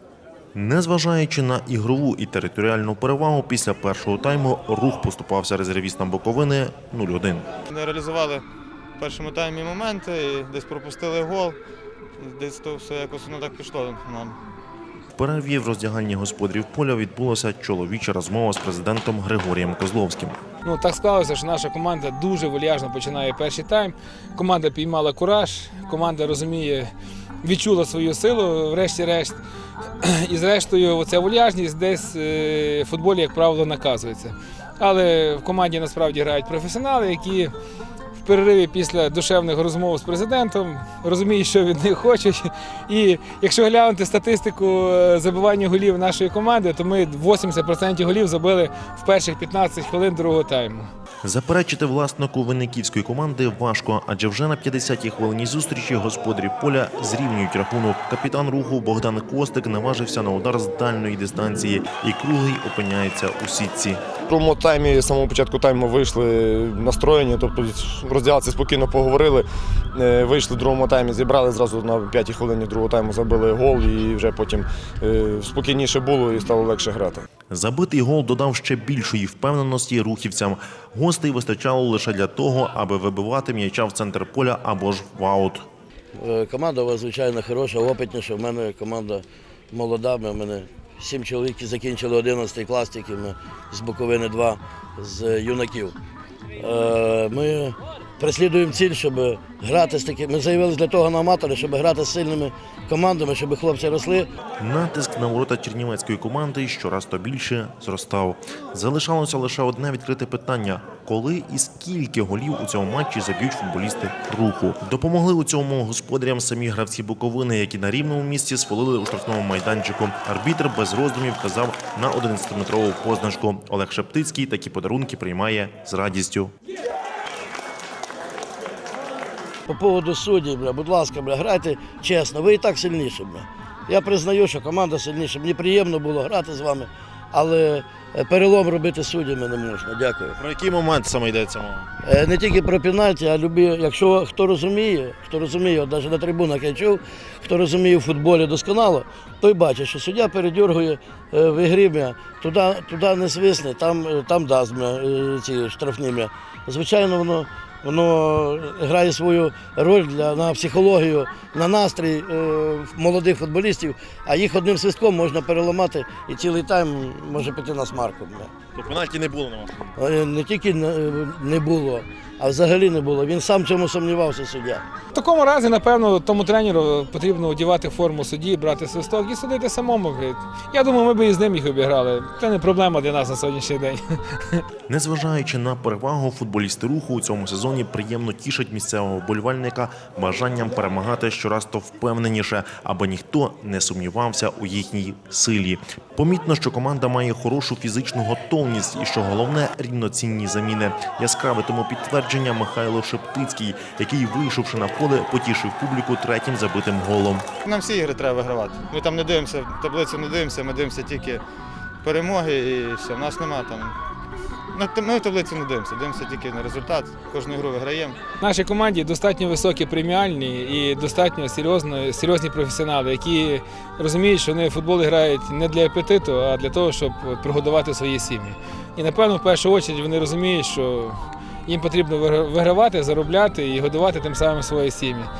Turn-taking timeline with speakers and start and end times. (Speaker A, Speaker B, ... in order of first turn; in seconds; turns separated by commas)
Speaker A: 0.5-7.5, Speaker B: 7.7-8.4, Speaker B: 9.0-11.6, Speaker B: 12.2-14.4, Speaker A: 15.2-20.4, Speaker C: 20.6-26.9, Speaker C: 27.4-29.4, Speaker C: 30.0-37.5, Speaker C: 38.2-50.9, Speaker A: 51.2-64.0, Speaker D: 64.3-77.2, Speaker A: 77.5-85.6, Speaker E: 86.2-95.9, Speaker E: 96.6-104.3, Speaker A: 104.6-126.5, Speaker E: 129.7-140.4, Speaker A: 140.4-141.9, Speaker E: 142.0-168.5, Speaker A: 168.8-169.8, Speaker E: 170.0-174.8, Speaker C: 175.1-184.6, Speaker A: 184.9-207.4, Speaker B: 207.6-211.4, Speaker B: 212.0-213.9, Speaker B: 214.7-218.2, Speaker C: 218.4-235.3